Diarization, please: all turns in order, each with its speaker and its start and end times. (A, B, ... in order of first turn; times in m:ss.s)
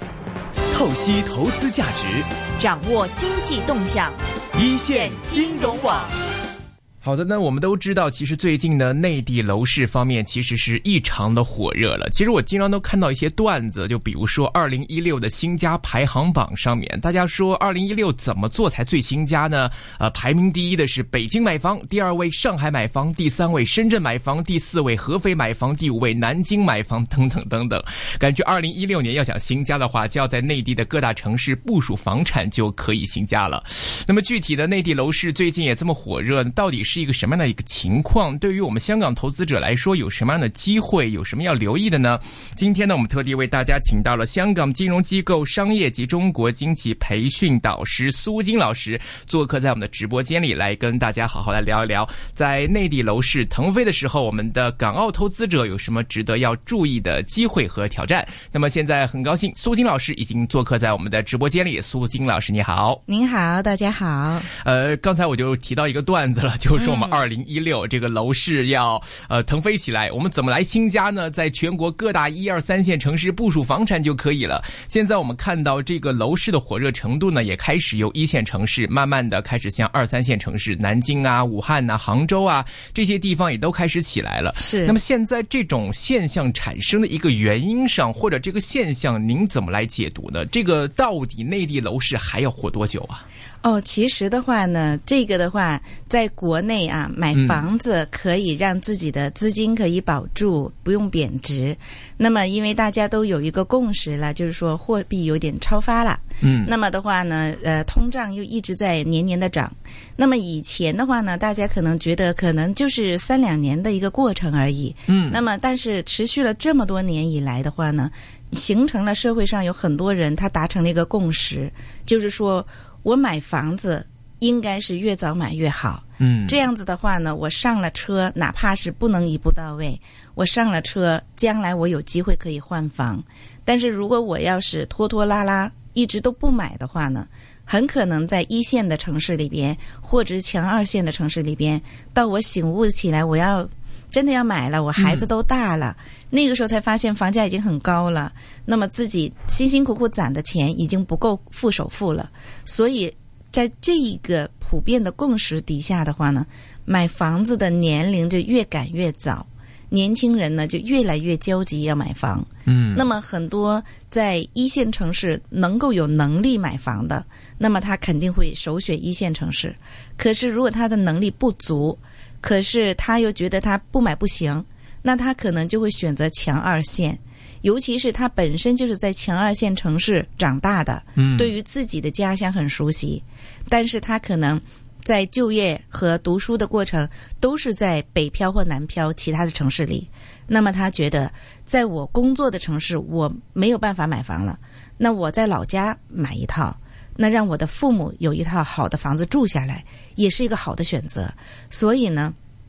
0:00.7-0:02.3 A
0:02.6-0:04.2 B
0:04.5-0:06.0 A
0:04.9-0:06.1 B
0:07.0-1:03.0 C
1:03.1-1:04.5 D
1:04.5-1:33.2 C
1:06.8-1:07.2 D
1:24.6-1:25.0 D
1:33.6-3:22.4 D
1:37.3-1:37.6 C
1:46.4-1:46.7 C
1:55.1-1:55.4 C
2:06.2-2:06.6 C
2:25.0-2:25.2 C
2:42.7-2:43.0 C
3:01.2-3:01.5 C